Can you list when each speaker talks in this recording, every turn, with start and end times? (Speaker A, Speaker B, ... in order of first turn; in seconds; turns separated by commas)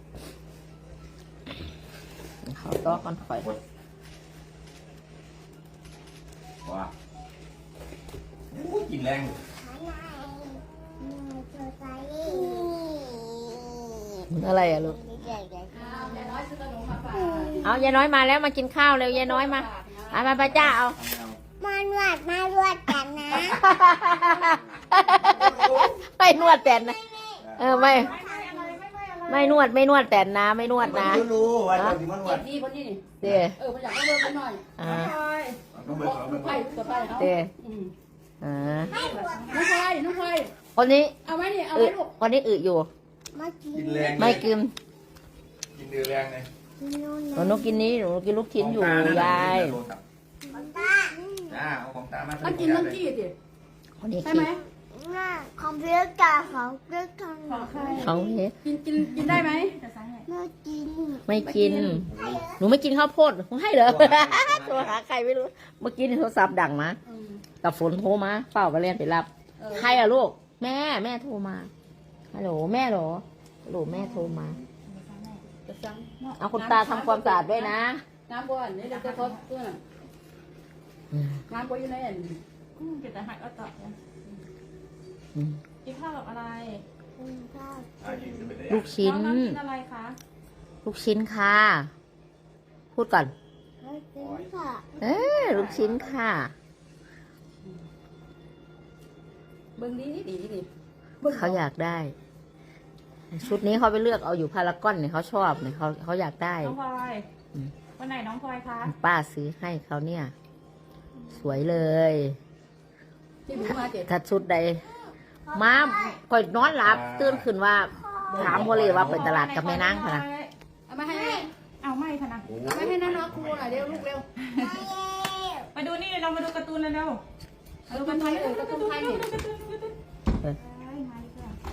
Speaker A: 2.4-3.5, Speaker B: 2.8-3.6, Speaker B: 6.6-6.9, Speaker B: 8.5-9.4, Speaker C: 9.5-16.3, Speaker A: 12.3-12.7, Speaker A: 14.3-15.0, Speaker D: 15.7-17.6, Speaker C: 17.1-17.8, Speaker A: 17.6-21.0, Speaker D: 19.1-20.2, Speaker B: 20.4-21.4, Speaker C: 21.6-23.7, Speaker A: 23.3-27.0, Speaker B: 25.0-25.9, Speaker C: 26.3-28.8, Speaker B: 27.4-27.8, Speaker A: 27.6-28.1, Speaker E: 27.8-29.6, Speaker A: 29.3-32.0, Speaker B: 30.8-32.5, Speaker D: 32.3-33.0, Speaker A: 33.2-33.6, Speaker D: 33.6-34.6, Speaker A: 34.8-35.1, Speaker E: 34.8-35.6, Speaker B: 35.7-36.7, Speaker D: 36.0-37.9, Speaker C: 36.4-37.3, Speaker A: 37.2-37.5, Speaker A: 38.4-38.9, Speaker E: 38.8-39.8, Speaker C: 38.9-40.0, Speaker D: 39.5-40.5, Speaker A: 40.8-41.2, Speaker D: 41.3-42.1, Speaker A: 41.8-42.9, Speaker C: 43.3-44.4, Speaker B: 43.7-44.5, Speaker A: 44.2-44.7, Speaker B: 45.7-46.5, Speaker C: 46.8-47.8, Speaker A: 47.3-49.8, Speaker B: 48.6-50.0, Speaker C: 50.5-51.6, Speaker B: 51.5-53.0, Speaker D: 52.5-53.3, Speaker A: 54.0-54.5, Speaker D: 54.2-54.6, Speaker C: 54.7-58.4, Speaker E: 57.5-58.2, Speaker A: 57.9-58.5, Speaker D: 58.6-59.7, Speaker E: 59.0-60.2, Speaker C: 60.3-61.2, Speaker A: 61.2-67.0, Speaker C: 62.0-62.6, Speaker B: 62.1-62.4, Speaker B: 63.8-65.0, Speaker A: 67.6-71.7, Speaker D: 69.6-69.9, Speaker A: 72.3-74.6, Speaker E: 74.8-75.4, Speaker D: 75.7-76.1, Speaker A: 76.4-78.0, Speaker D: 76.6-77.4, Speaker D: 78.3-79.8, Speaker E: 78.8-79.4, Speaker A: 81.1-81.4, Speaker D: 81.5-82.4, Speaker E: 82.8-84.0, Speaker E: 85.8-86.8, Speaker C: 87.2-88.6, Speaker B: 88.0-89.0, Speaker A: 88.7-89.6, Speaker E: 89.0-90.2, Speaker A: 90.8-91.9, Speaker A: 92.9-93.3, Speaker C: 93.8-94.9, Speaker B: 94.2-96.2, Speaker A: 95.0-96.5, Speaker E: 95.3-95.8, Speaker D: 99.8-100.7, Speaker A: 101.2-102.1, Speaker A: 103.3-106.8, Speaker E: 106.6-107.2, Speaker E: 108.0-108.9, Speaker A: 108.9-110.3, Speaker A: 111.3-112.4, Speaker D: 113.5-114.1, Speaker A: 114.0-114.8, Speaker C: 115.4-116.2, Speaker A: 115.5-120.2, Speaker B: 116.6-117.5, Speaker C: 118.0-118.6, Speaker B: 118.3-119.3, Speaker E: 119.0-120.5, Speaker D: 120.9-121.3, Speaker E: 121.1-122.5, Speaker C: 121.1-121.5, Speaker B: 122.4-124.2, Speaker D: 122.7-124.2, Speaker E: 124.4-124.9, Speaker C: 124.6-125.7, Speaker E: 125.7-127.2, Speaker E: 127.9-129.9, Speaker D: 127.9-129.2, Speaker E: 130.6-131.6